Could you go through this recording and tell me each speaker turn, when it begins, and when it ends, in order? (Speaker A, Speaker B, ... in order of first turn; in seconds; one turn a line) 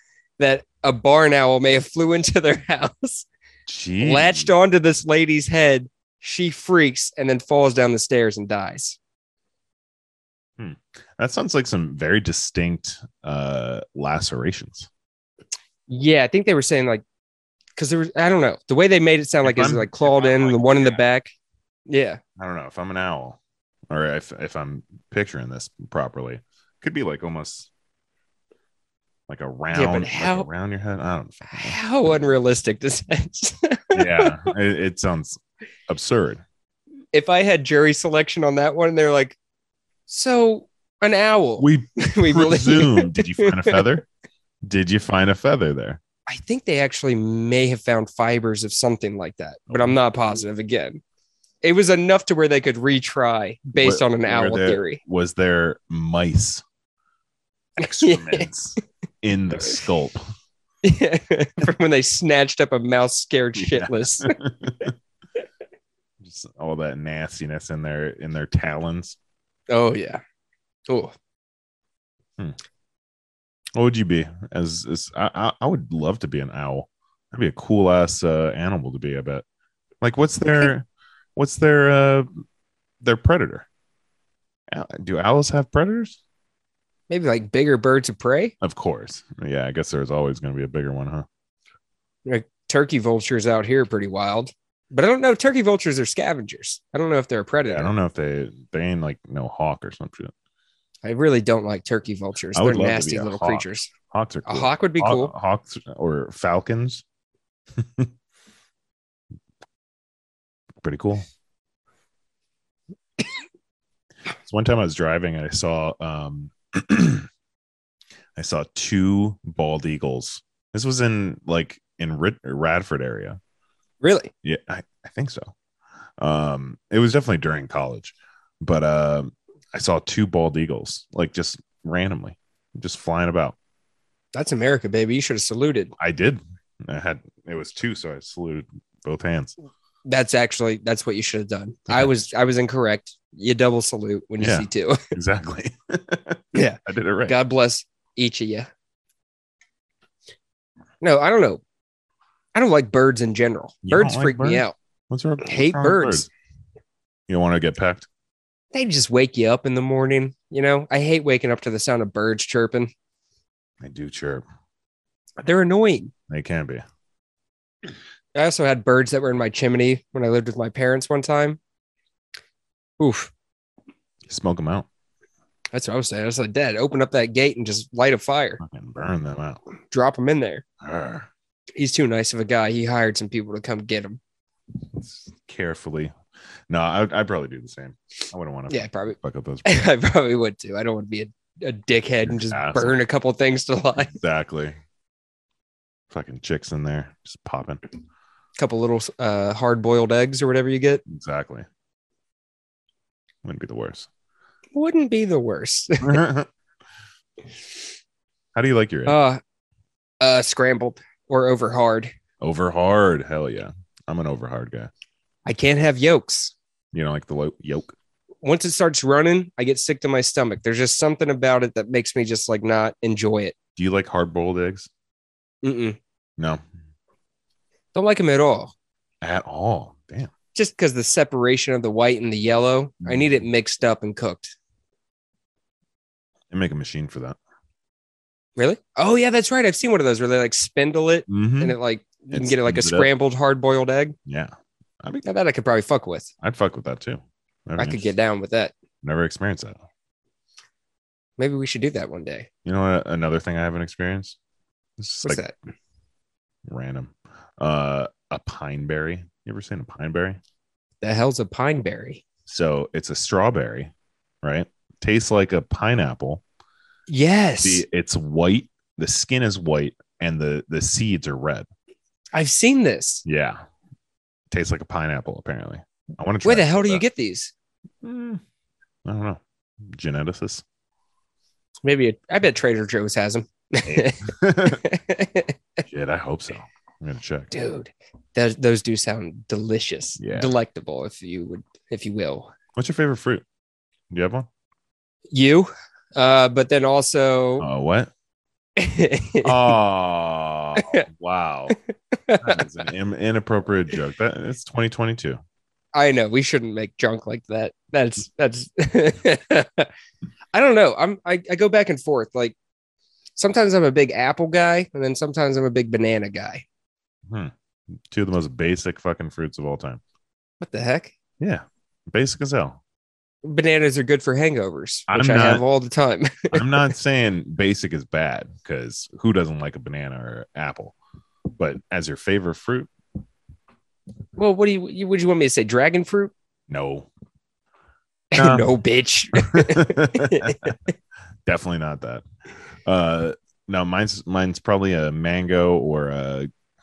Speaker A: 0.4-3.3
Speaker B: 3.7-4.5
Speaker A: 4.0-9.0
Speaker B: 10.6-14.9
Speaker A: 15.9-17.0
Speaker A: 17.8-21.3
Speaker B: 19.4-21.0
Speaker A: 21.9-22.2
Speaker B: 22.4-23.4
Speaker B: 23.9-27.7
Speaker B: 29.3-31.8
Speaker A: 29.7-30.5
Speaker A: 31.5-34.5
Speaker B: 33.9-36.4
Speaker A: 37.1-39.4
Speaker A: 40.1-43.8
Speaker B: 41.6-44.1
Speaker B: 44.6-46.0
Speaker A: 46.3-51.0
Speaker B: 49.7-50.0
Speaker A: 51.6-55.0
Speaker B: 53.8-56.6
Speaker B: 57.8-60.2
Speaker A: 57.8-58.5
Speaker A: 60.8-64.3
Speaker B: 63.5-64.9
Speaker B: 66.2-69.2
Speaker A: 69.7-70.2
Speaker A: 70.9-71.1
Speaker B: 73.7-79.4
Speaker B: 80.0-82.3
Speaker B: 83.0-83.7
Speaker B: 84.7-86.2
Speaker A: 87.1-88.5
Speaker B: 88.6-91.2
Speaker A: 92.2-97.9
Speaker B: 97.7-100.3
Speaker A: 101.0-103.9
Speaker B: 102.5-107.0
Speaker A: 104.5-105.3
Speaker B: 107.8-108.1
Speaker B: 110.8-111.2
Speaker B: 114.4-117.3
Speaker B: 118.3-123.4
Speaker A: 124.0-124.3
Speaker B: 124.4-125.5
Speaker B: 126.2-133.6
Speaker A: 134.3-135.9
Speaker B: 136.0-139.5
Speaker A: 140.0-145.1
Speaker B: 144.4-147.3
Speaker A: 146.5-148.7
Speaker A: 151.0-151.6
Speaker A: 152.5-154.7
Speaker B: 153.8-156.3
Speaker A: 155.4-156.3
Speaker B: 157.3-158.1
Speaker A: 158.7-162.9
Speaker B: 163.8-164.4
Speaker A: 165.4-166.1
Speaker B: 166.3-166.8
Speaker A: 168.3-171.6
Speaker A: 173.0-173.3
Speaker B: 174.3-174.9
Speaker A: 175.7-178.6
Speaker B: 178.6-179.6
Speaker A: 179.9-180.6
Speaker B: 180.8-181.3
Speaker A: 181.8-184.2
Speaker B: 184.9-186.1
Speaker B: 186.7-189.8
Speaker A: 188.7-194.1
Speaker B: 192.2-192.9
Speaker B: 194.0-194.8
Speaker B: 196.1-197.8
Speaker A: 198.6-201.0
Speaker B: 201.1-201.7
Speaker B: 203.4-204.1
Speaker A: 204.7-206.2
Speaker B: 206.0-206.5
Speaker B: 208.5-209.2
Speaker A: 209.1-209.4
Speaker A: 210.2-212.1
Speaker B: 212.4-214.9
Speaker A: 215.4-216.5
Speaker B: 216.9-217.9
Speaker A: 218.4-223.5
Speaker B: 223.8-224.9
Speaker A: 225.6-226.0
Speaker B: 226.4-226.6
Speaker A: 227.9-228.7
Speaker B: 229.2-230.3
Speaker A: 230.5-234.5
Speaker B: 233.0-233.4
Speaker B: 236.5-237.4
Speaker A: 238.6-244.2
Speaker B: 241.3-241.8
Speaker B: 242.3-243.1
Speaker B: 244.2-245.2
Speaker A: 245.2-246.3
Speaker B: 246.4-248.1
Speaker A: 247.8-248.7
Speaker B: 249.0-249.8
Speaker A: 251.4-252.5
Speaker B: 252.6-254.4
Speaker B: 255.0-255.4
Speaker A: 255.2-255.5
Speaker B: 256.7-260.4
Speaker A: 261.0-262.2
Speaker B: 262.5-263.9
Speaker B: 264.4-266.4
Speaker A: 267.1-267.8
Speaker B: 267.6-271.7
Speaker A: 272.3-273.2
Speaker B: 273.2-273.6
Speaker B: 274.5-277.0
Speaker A: 276.4-277.5
Speaker B: 278.0-278.4
Speaker B: 279.0-280.6
Speaker A: 281.8-285.5
Speaker B: 283.9-284.8
Speaker B: 285.8-287.5
Speaker A: 287.5-292.5
Speaker B: 290.2-290.5
Speaker B: 292.8-293.4
Speaker B: 294.1-294.5
Speaker A: 295.3-297.7
Speaker B: 297.6-298.1
Speaker A: 298.8-299.7
Speaker B: 299.4-301.8
Speaker A: 300.8-301.0
Speaker A: 301.7-302.6
Speaker B: 302.4-305.4
Speaker A: 305.9-309.9
Speaker A: 310.5-312.6
Speaker A: 313.4-316.6
Speaker B: 318.1-320.0
Speaker A: 320.6-321.1
Speaker B: 321.4-322.8
Speaker A: 323.4-326.9
Speaker B: 325.1-325.6
Speaker B: 326.5-330.9
Speaker B: 331.6-332.9
Speaker A: 334.4-336.3
Speaker B: 336.7-337.1
Speaker A: 338.3-340.8
Speaker B: 338.4-338.7
Speaker B: 339.3-340.8
Speaker B: 341.4-342.2
Speaker B: 342.8-346.5